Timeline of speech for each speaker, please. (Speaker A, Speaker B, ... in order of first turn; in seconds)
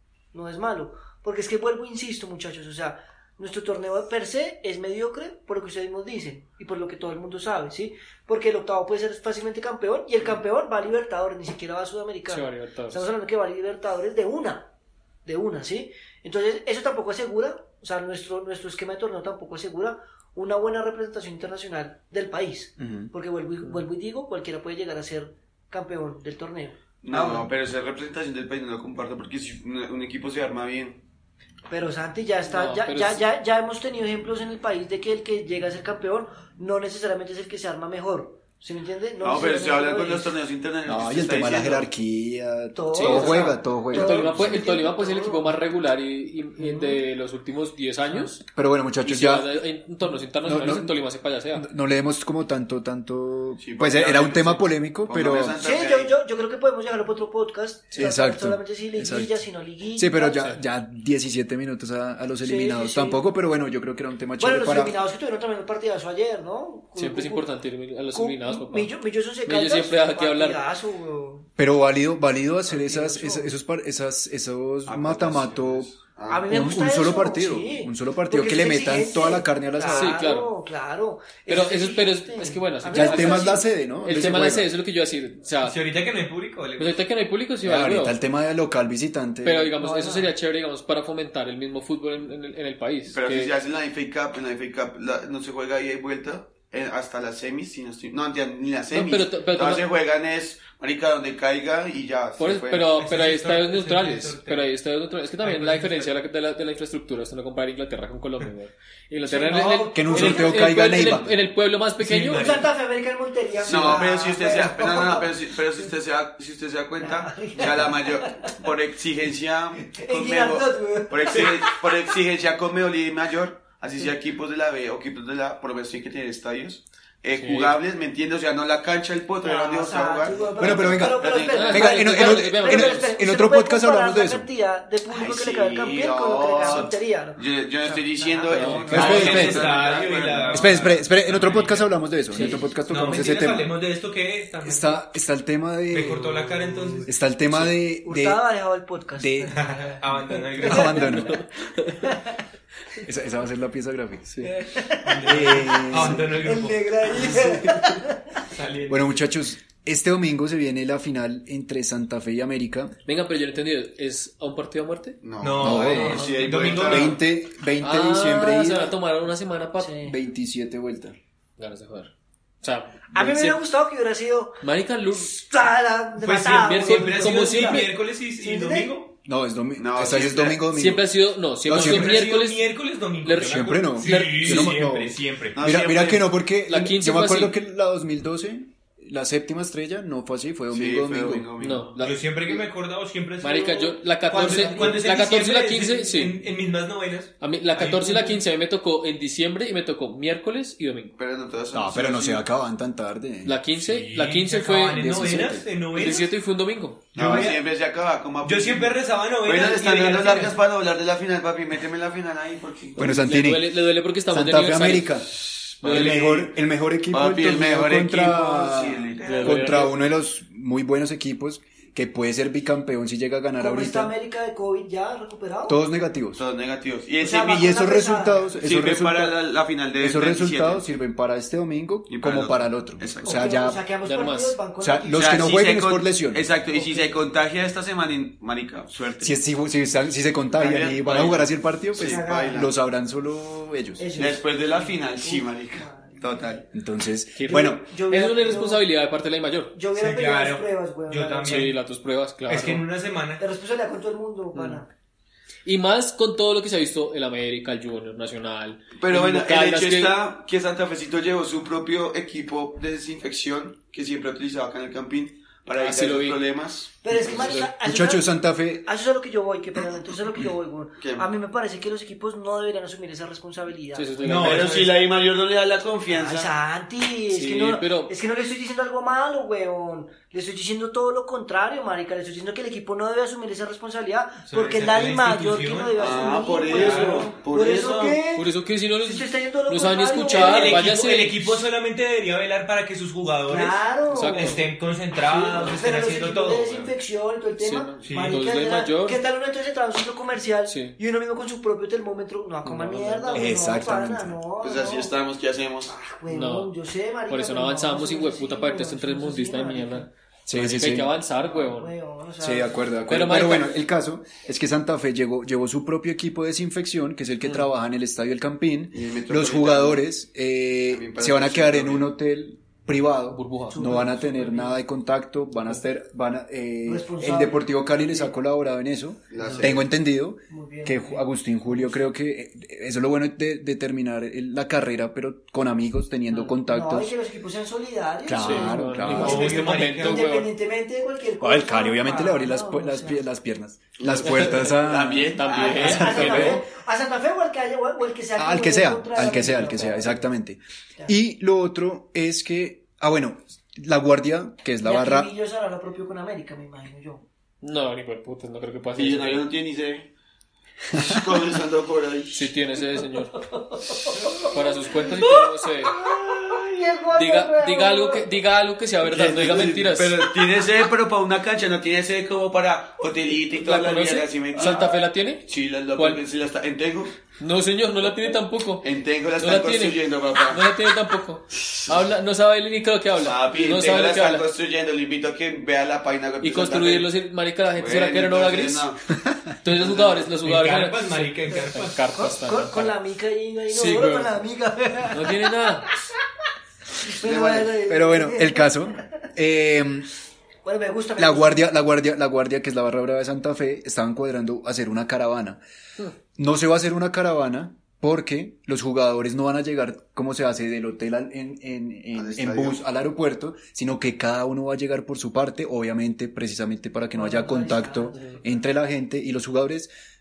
Speaker A: 0.3-14.7, 15.2-27.4, 31.7-40.3, 42.7-45.6, 46.6-47.0, 55.6-60.5, 62.4-63.2, 64.4-67.5, 68.1-71.5, 72.7-73.5, 76.3-83.6, 89.8-90.3, 109.2-110.8, 112.3-115.9, 117.0-118.5, 119.8-121.8, 129.4-138.9, 148.0-150.0, 150.6-151.3, 152.0-152.3, 154.4-158.2, 169.8-170.1, 173.1-178.9, 194.3-195.0, 223.6-225.8, 227.2-228.5, 233.2-235.5, 236.7-237.2, 242.0-242.7, 244.0-246.6, 247.5-248.8, 249.7-251.7, 253.4-254.9, 267.0-274.1, 276.1-290.9, 293.5-294.6, 295.2-305.1, 305.9-310.1, 311.4-312.8, 323.7-324.8, 326.9-328.3, 330.5-332.1, 336.6-343.2, 345.5-350.3, 354.8-357.2, 363.4-368.3, 391.5-395.9, 397.0-398.8, 400.6-401.7, 417.1-418.6
Speaker B: 12.3-13.1, 32.5-33.2, 42.9-48.5, 49.0-51.7, 67.0-68.9, 69.5-70.6, 79.9-80.5, 81.5-85.8, 86.8-88.2, 89.4-93.5, 98.9-99.8, 102.4-112.6, 127.4-127.8, 131.4-133.1, 138.5-139.6, 142.3-142.7, 151.3-152.1, 163.1-165.2, 165.9-166.4, 167.8-170.0, 171.6-173.6, 174.6-175.4, 176.5-177.9, 180.7-182.7, 183.2-184.8, 186.7-187.6, 191.6-192.6, 193.4-196.4, 197.4-201.2, 203.4-205.3, 205.9-207.2, 213.1-215.2, 215.8-216.3, 219.2-220.0, 234.0-234.6, 247.3-249.8, 251.4-252.8, 254.5-254.8, 255.6-260.2, 265.8-266.4, 273.9-274.8, 277.3-278.1, 288.3-291.6, 294.1-294.6, 297.6-299.2, 300.7-301.0, 302.6-303.5, 306.3-306.7, 307.3-311.9, 313.1-313.8, 323.3-323.9, 329.4-329.7, 338.4-340.5, 344.2-346.6, 357.6-359.4, 362.3-363.5, 364.4-366.0, 367.1-370.3, 373.5-376.2, 377.4-378.9, 379.4-384.5, 386.4-388.9, 389.6-392.9, 393.7-394.4, 395.1-395.9
Speaker C: 22.8-23.1, 40.8-44.5, 48.5-49.6, 50.4-51.0, 51.5-55.6, 57.9-65.0, 71.6-75.9, 76.5-80.2, 82.9-84.7, 87.6-89.8, 109.9-111.3, 130.6-134.5, 138.9-139.7, 140.5-143.8, 144.6-146.4, 147.1-148.4, 149.2-149.6, 150.6-151.4, 153.0-154.5, 155.2-156.4, 158.9-162.9, 165.6-168.9, 170.0-171.2, 179.2-181.1, 181.7-182.2, 183.4-191.5, 201.7-203.6, 204.9-205.7, 207.2-207.5, 213.0-215.3, 215.8-224.1, 225.7-226.4, 227.4-229.4, 230.0-233.8, 234.8-236.5, 239.2-244.1, 246.7-247.8, 267.6-268.9, 303.3-304.4, 310.5-311.1, 312.4-337.1, 338.2-339.6, 341.4-346.6, 348.4-355.3, 397.8-400.1, 401.2-405.6, 406.4-419.9
Speaker D: 27.0-31.0, 39.2-41.9, 53.6-56.1, 74.8-76.8, 93.1-102.9, 113.6-132.0, 135.1-140.7, 165.2-167.2, 179.8-180.6, 185.6-186.3, 190.7-191.9, 201.2-202.5, 207.1-213.2, 215.3-216.5, 217.1-219.9, 226.3-227.8, 228.6-230.8, 232.1-233.6, 235.1-239.4, 240.5-242.7, 244.2-246.6, 259.0-267.6, 271.0-271.3, 274.3-276.5, 286.0-288.2, 304.6-305.9, 318.9-320.1, 320.9-322.1, 329.3-329.9, 344.0-346.2, 359.0-360.1, 360.9-362.4, 369.0-377.1, 378.8-380.6, 383.2-387.1, 387.7-389.0, 389.7-390.3, 397.2-397.8, 412.1-412.8
Speaker E: 85.6-87.0, 102.9-104.7, 105.4-106.1, 112.0-112.7, 138.8-145.0, 145.9-147.1, 149.5-151.2, 155.1-157.3, 158.5-159.2, 165.4-167.2, 176.2-179.1, 181.7-185.9, 191.9-198.4, 203.9-206.3, 207.2-207.6, 208.4-210.6, 249.9-251.8, 252.5-253.4, 274.2-275.0, 284.5-287.6, 290.3-296.9, 298.0-298.4, 339.1-340.3, 390.4-392.0